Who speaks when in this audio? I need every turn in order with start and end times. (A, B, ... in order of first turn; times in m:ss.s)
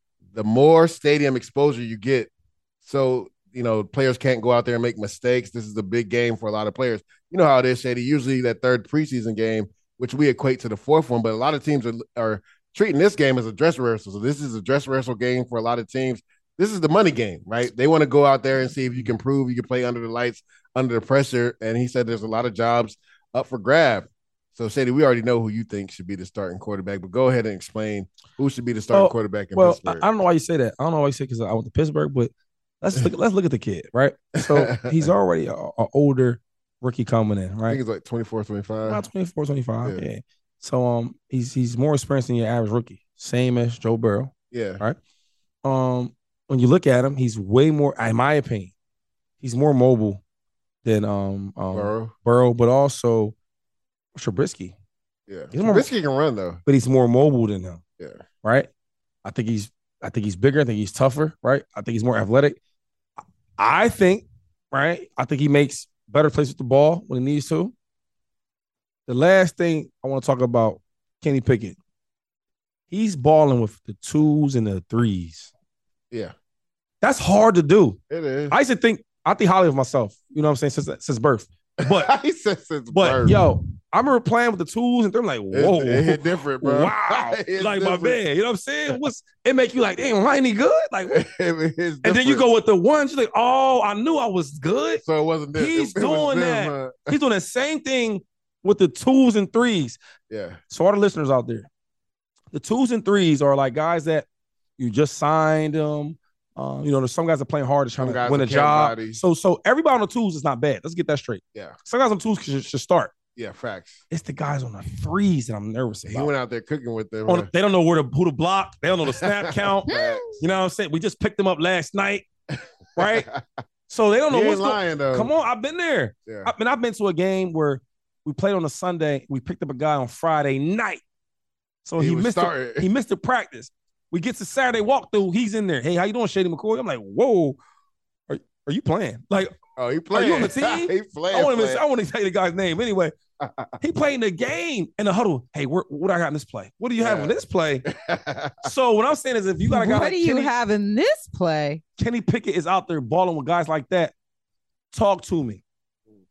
0:00.3-0:02.3 A
0:02.8-0:30.0 A
0:28.9-0:37.8 B
0:34.4-0:35.0 A
0:37.7-0:39.0 A
0:38.9-0:45.0 B
0:44.5-0:44.8 A
0:45.6-0:48.7 B
0:49.4-0:50.2 B
0:50.8-0:53.3 B
0:51.7-0:52.1 A
0:54.2-0:54.7 B
0:55.3-0:56.6 A
0:55.5-0:55.9 B
0:56.7-0:57.8 B
0:58.4-0:58.7 B
0:59.2-1:02.6 B
1:03.6-1:07.7 B
1:09.1-1:11.8 B
1:12.9-1:15.5 B
1:17.0-1:18.0 B
1:18.1-1:18.5 A
1:18.5-1:22.1 B
1:21.9-1:23.5 A
1:22.9-1:31.2 B
1:25.5-1:28.2 A
1:31.1-1:32.4 A
1:32.0-1:35.0 B
1:35.0-1:37.2 A
1:35.6-1:40.0 B
1:40.3-1:40.6 A
1:40.7-1:41.7 B
1:42.5-1:44.3 B
1:44.8-1:53.1 B
1:48.0-1:49.2 A
1:53.4-1:54.0 A
1:54.1-1:56.3 B
1:56.1-1:57.5 A
1:57.3-1:59.9 B
1:59.5-2:00.3 A
1:59.9-2:00.4 C
2:00.4-2:02.2 B
2:03.0-2:03.3 B
2:03.0-2:03.6 A
2:03.9-2:11.0 B
2:04.3-2:05.3 A
2:11.8-2:17.6 B
2:12.0-2:12.9 A
2:18.3-2:19.5 B
2:19.8-2:21.8 A
2:20.1-2:23.1 B
2:23.4-2:23.7 A
2:23.8-2:27.8 B
2:27.0-2:27.4 A
2:27.9-2:28.7 A
2:28.6-2:30.5 B
2:29.6-2:31.8 C
2:32.0-2:34.1 B
2:34.9-2:35.6 B